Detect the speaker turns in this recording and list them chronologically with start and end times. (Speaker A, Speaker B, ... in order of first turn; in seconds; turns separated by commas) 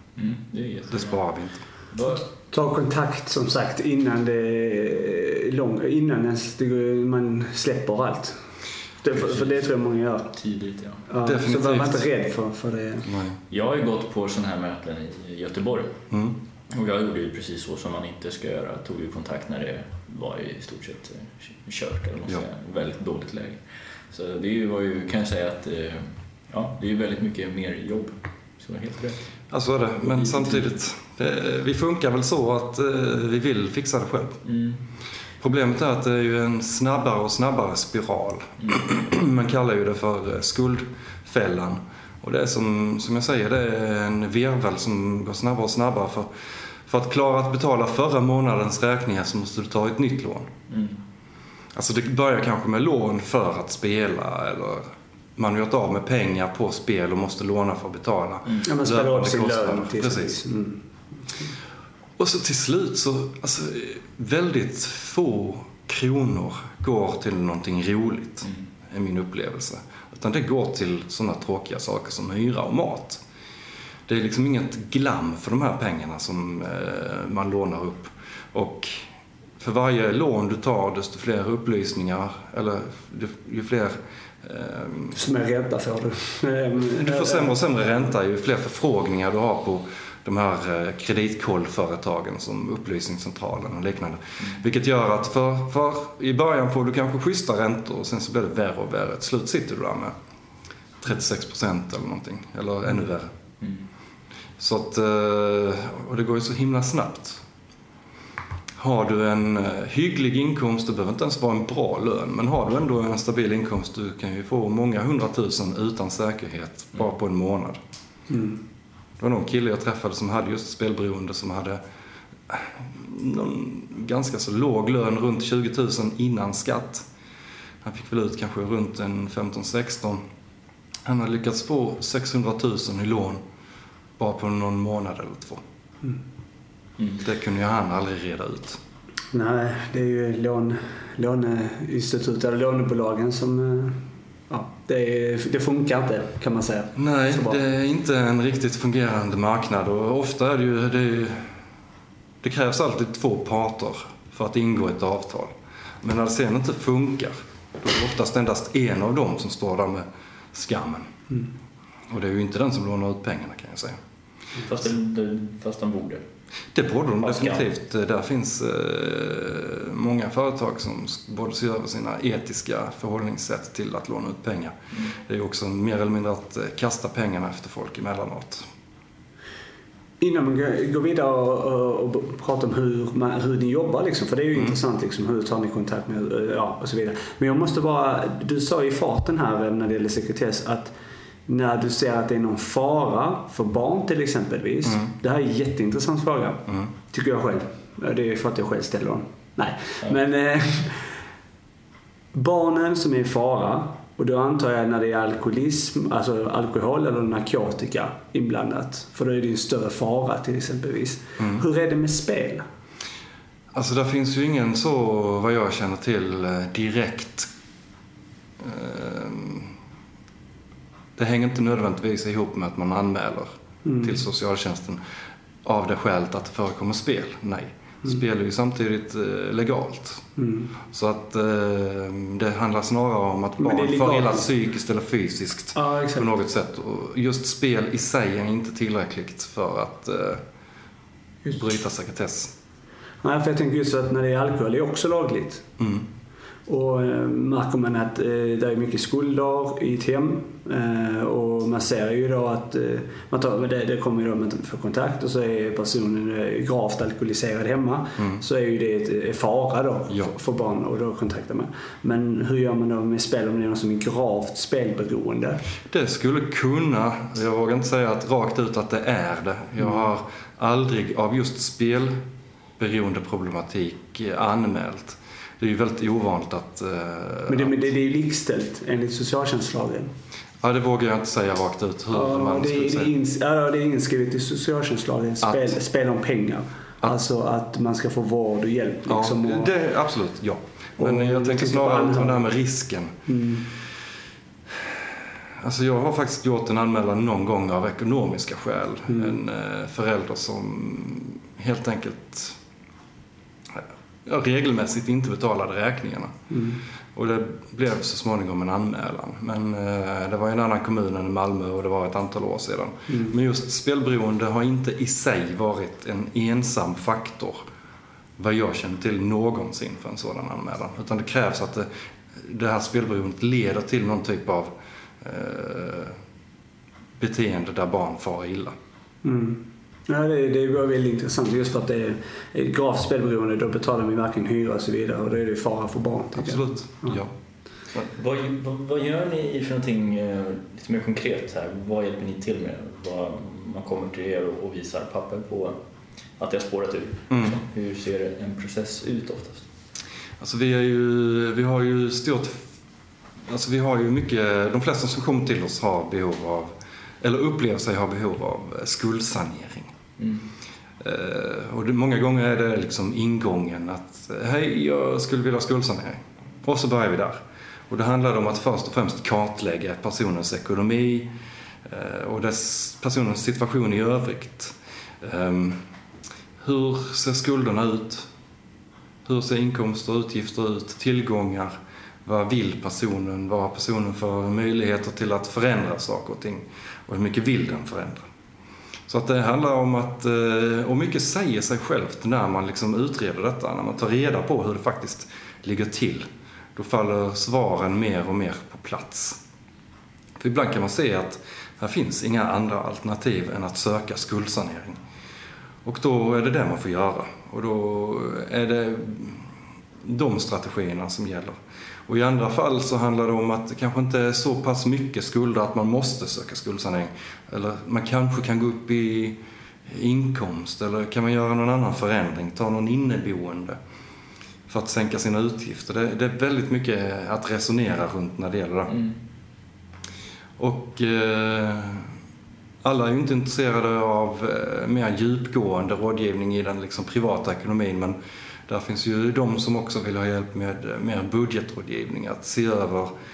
Speaker A: 0.2-1.2, Speaker B: 0.9-1.6, Speaker A: 1.9-2.2, Speaker C: 2.3-8.4, Speaker C: 9.0-10.3, Speaker A: 9.1-9.7, Speaker A: 10.3-11.1, Speaker C: 11.1-13.1, Speaker B: 11.2-12.1, Speaker B: 13.1-13.4, Speaker A: 13.5-16.0, Speaker B: 16.1-16.4, Speaker A: 16.7-29.2, Speaker B: 29.5-34.4, Speaker A: 30.2-30.7, Speaker A: 34.5-34.8, Speaker B: 35.4-46.3, Speaker B: 46.9-50.5, Speaker A: 50.7-51.0, Speaker B: 51.7-54.8, Speaker B: 55.4-60.4, Speaker C: 58.6-61.5, Speaker B: 62.2-73.2, Speaker B: 74.1-79.1, Speaker B: 79.6-85.2, Speaker C: 85.2-87.6, Speaker B: 86.9-100.1, Speaker B: 101.0-103.3, Speaker B: 104.6-107.4, Speaker B: 108.8-117.8, Speaker C: 118.3-118.6, Speaker B: 119.2-121.8, Speaker B: 122.5-127.1, Speaker B: 127.8-130.2, Speaker B: 131.1-133.4, Speaker B: 134.2-135.6, Speaker B: 137.2-138.8, Speaker C: 139.3-147.6, Speaker B: 147.0-151.5, Speaker B: 152.4-161.1, Speaker B: 162.1-164.0, Speaker A: 164.6-166.2, Speaker B: 166.7-178.7, Speaker A: 167.2-167.6, Speaker C: 180.2-190.9, Speaker C: 191.5-201.1, Speaker C: 202.3-212.6, Speaker B: 213.7-217.5, Speaker B: 218.6-219.7, Speaker B: 221.2-223.5, Speaker C: 223.8-224.2, Speaker B: 224.0-225.0, Speaker B: 225.6-230.2, Speaker C: 230.4-230.7, Speaker B: 230.9-240.4, Speaker C: 233.6-234.5, Speaker C: 235.8-236.3, Speaker B: 241.5-242.5, Speaker C: 243.2-245.7, Speaker B: 245.8-246.1, Speaker C: 246.7-265.6, Speaker B: 265.9-272.2, Speaker B: 272.8-277.8, Speaker C: 277.5-280.1, Speaker B: 280.6-283.1, Speaker C: 282.1-289.7, Speaker B: 285.4-285.7, Speaker B: 289.1-293.2, Speaker C: 291.0-292.4, Speaker C: 293.3-293.7, Speaker B: 295.6-302.6, Speaker C: 299.1-299.4, Speaker B: 303.7-306.4, Speaker C: 306.5-306.8, Speaker B: 307.1-317.6, Speaker C: 313.1-313.4, Speaker B: 318.4-321.9, Speaker B: 322.4-324.7, Speaker B: 325.2-326.1, Speaker B: 327.2-328.8, Speaker C: 329.2-337.2, Speaker B: 336.4-337.3, Speaker A: 338.1-345.8, Speaker A: 346.4-349.7, Speaker B: 347.3-347.6, Speaker B: 350.4-352.6, Speaker B: 353.5-359.9, Speaker A: 360.2-360.5, Speaker B: 361.0-371.3, Speaker B: 371.9-375.8, Speaker B: 376.6-378.3, Speaker B: 379.2-381.7, Speaker B: 382.2-388.3, Speaker B: 389.1-399.4, Speaker B: 400.4-405.0, Speaker B: 405.9-409.4, Speaker B: 410.0-419.4, Speaker B: 419.9-423.8, Speaker B: 424.7-428.9, Speaker A: 428.9-429.2, Speaker B: 430.6-432.1, Speaker B: 432.8-438.2, Speaker B: 438.7-443.1